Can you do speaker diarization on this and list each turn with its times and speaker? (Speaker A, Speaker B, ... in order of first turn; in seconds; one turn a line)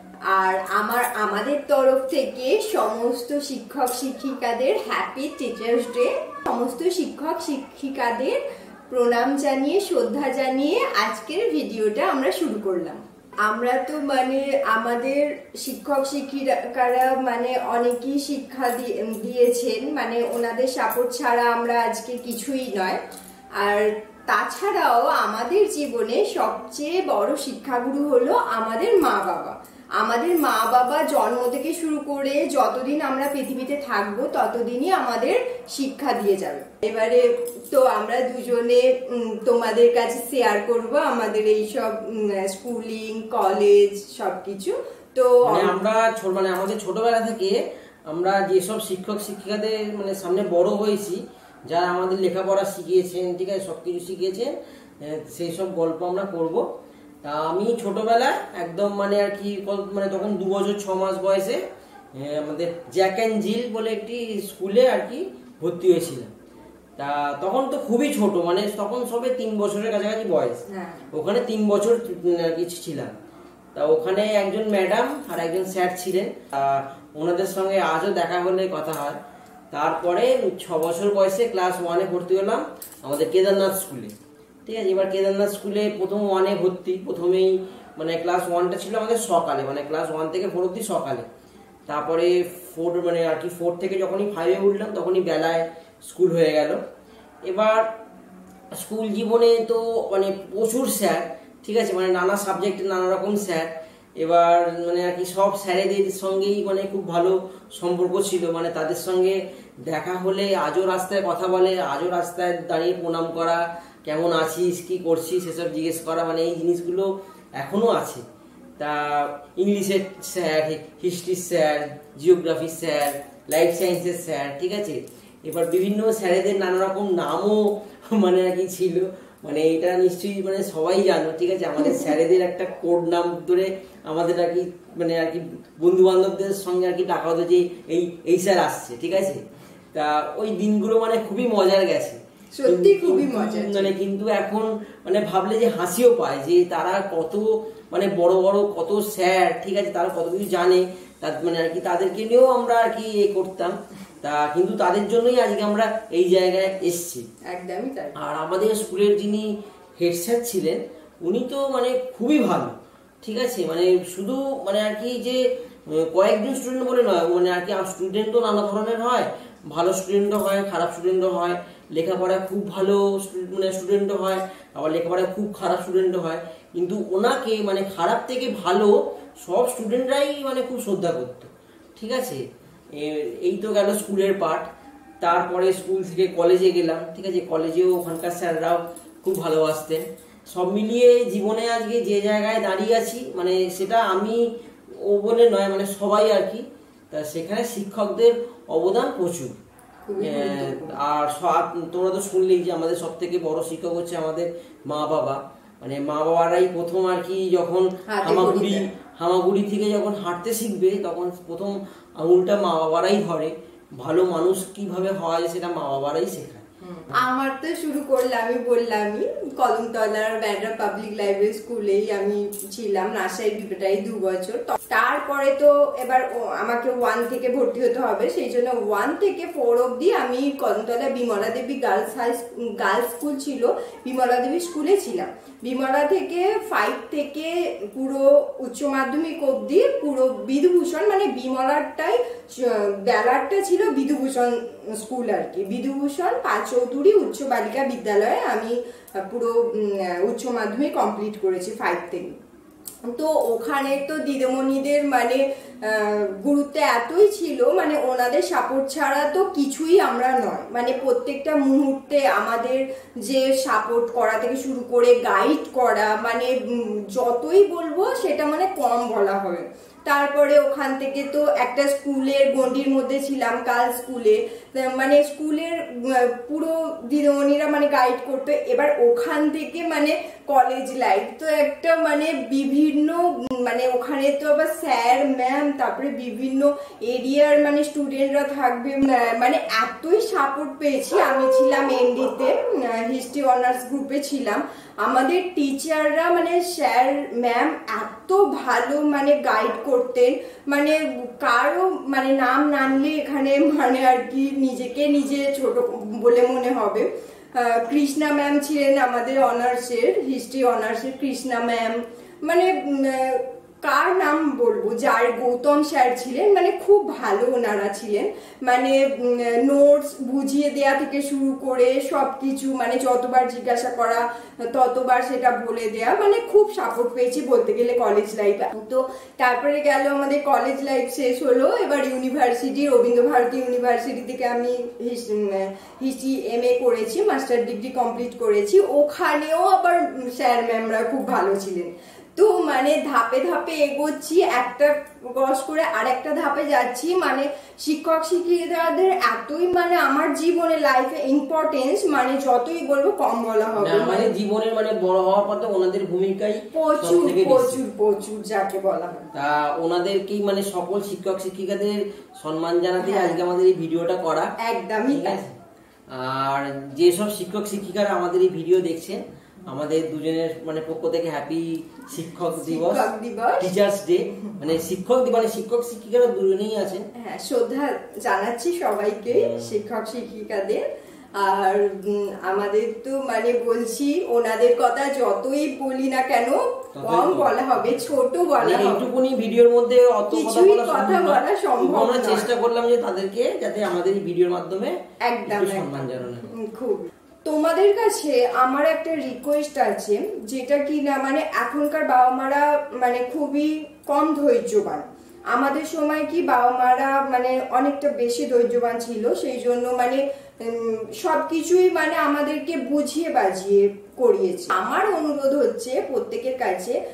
Speaker A: 0.3-8.4
Speaker A: 8.9-23.0
Speaker A: 23.6-45.8
Speaker B: 45.5-56.6
Speaker B: 57.2-61.6
Speaker B: 62.1-66.3
Speaker B: 67.0-73.1
Speaker A: 70.7-71.1
Speaker B: 73.7-79.2
Speaker B: 79.7-84.1
Speaker B: 84.7-91.2
Speaker B: 91.9-96.8
Speaker B: 97.5-97.9
Speaker B: 98.8-118.2
Speaker B: 118.8-139.4
Speaker B: 139.9-157.2
Speaker A: 142.5-143.9
Speaker A: 157.5-158.1
Speaker B: 158.2-159.5
Speaker B: 160.0-184.7
Speaker B: 185.2-194.4
Speaker B: 195.0-199.6
Speaker A: 200.0-201.0
Speaker B: 200.2-216.6
Speaker A: 208.1-208.9
Speaker A: 216.8-252.3
Speaker A: 253.1-354.3
Speaker B: 353.8-357.8
Speaker A: 356.7-359.3
Speaker B: 359.3-364.5
Speaker A: 363.0-363.4
Speaker A: 364.6-365.4
Speaker B: 365.1-365.5
Speaker B: 366.1-373.1
Speaker A: 372.6-373.7
Speaker B: 373.6-377.0
Speaker A: 377.2-380.8
Speaker B: 379.3-379.7
Speaker A: 381.4-389.1
Speaker B: 386.9-388.0
Speaker B: 388.6-396.5
Speaker A: 390.3-392.5
Speaker A: 395.2-417.0